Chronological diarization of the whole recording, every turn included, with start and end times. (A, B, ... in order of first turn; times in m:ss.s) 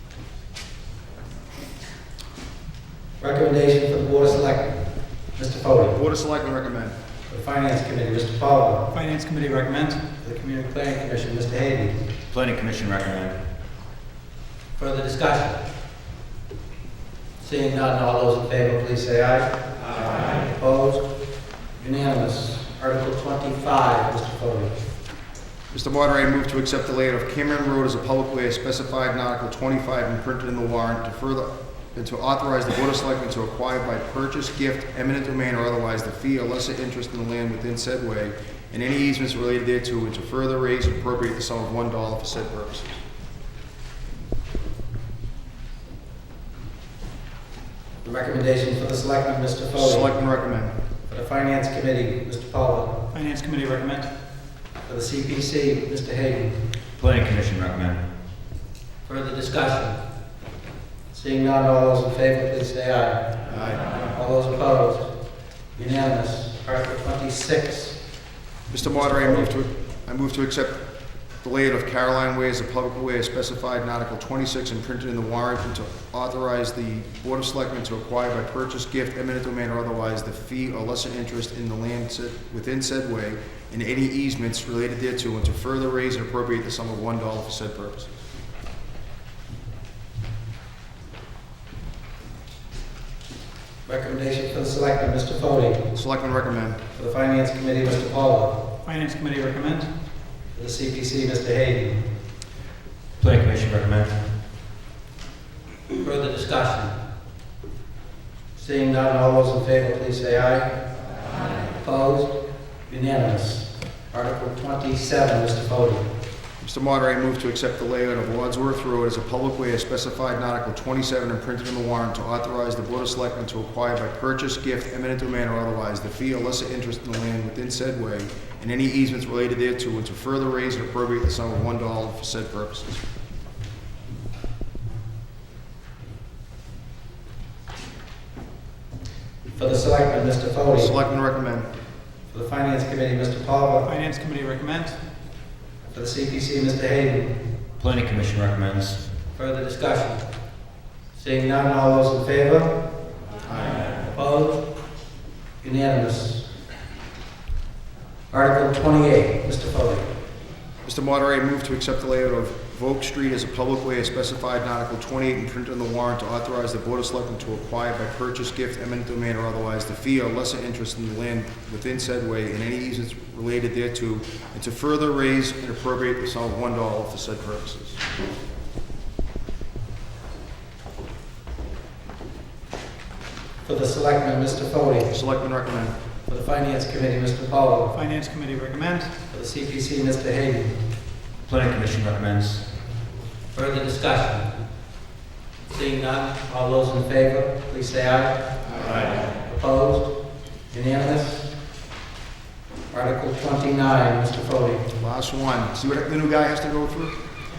0:03.2-0:04.8 A
0:05.4-0:06.0 A
0:05.9-0:07.0 B
0:07.3-0:08.9 A
0:08.9-0:10.1 C
0:10.2-0:12.0 A
0:12.3-0:13.4 D
0:14.8-0:15.6 A
0:17.4-0:21.1 A
0:21.8-0:24.7 A
0:25.7-0:43.0 B
0:48.0-0:50.1 A
0:49.7-0:50.7 B
0:51.1-0:53.0 A
0:53.1-0:54.1 C
0:54.9-0:56.6 A
0:57.0-0:58.0 D
0:59.1-1:00.0 A
1:01.1-1:03.3 A
1:03.5-1:03.9 B
1:04.1-1:05.1 A
1:05.8-1:08.0 A
1:08.7-1:10.8 B
1:11.4-1:28.1 B
1:33.9-1:35.8 A
1:35.9-1:36.8 B
1:37.0-1:38.6 A
1:38.9-1:39.9 C
1:40.6-1:42.0 A
1:43.2-1:44.2 D
1:46.0-1:47.0 A
1:48.6-1:50.7 A
1:51.8-1:52.3 A
1:52.9-1:56.1 A
1:56.6-2:13.0 B
2:19.6-2:20.9 A
2:20.8-2:21.7 B
2:22.3-2:23.9 A
2:23.8-2:25.0 C
2:25.9-2:27.3 A
2:27.8-2:29.0 D
2:29.4-2:30.2 A
2:31.2-2:32.8 A
2:33.5-2:33.8 B
2:34.1-2:34.6 A
2:35.6-2:36.5 A
2:38.3-2:40.1 A
2:40.8-2:58.0 B
3:03.6-3:05.1 A
3:05.1-3:06.0 B
3:06.3-3:08.0 A
3:07.9-3:09.1 C
3:09.3-3:10.8 A
3:11.5-3:12.6 D
3:13.5-3:14.6 A
3:15.7-3:18.4 A
3:19.4-3:20.1 A
3:20.7-3:21.5 A
3:22.9-3:24.8 A
3:25.0-3:27.1 B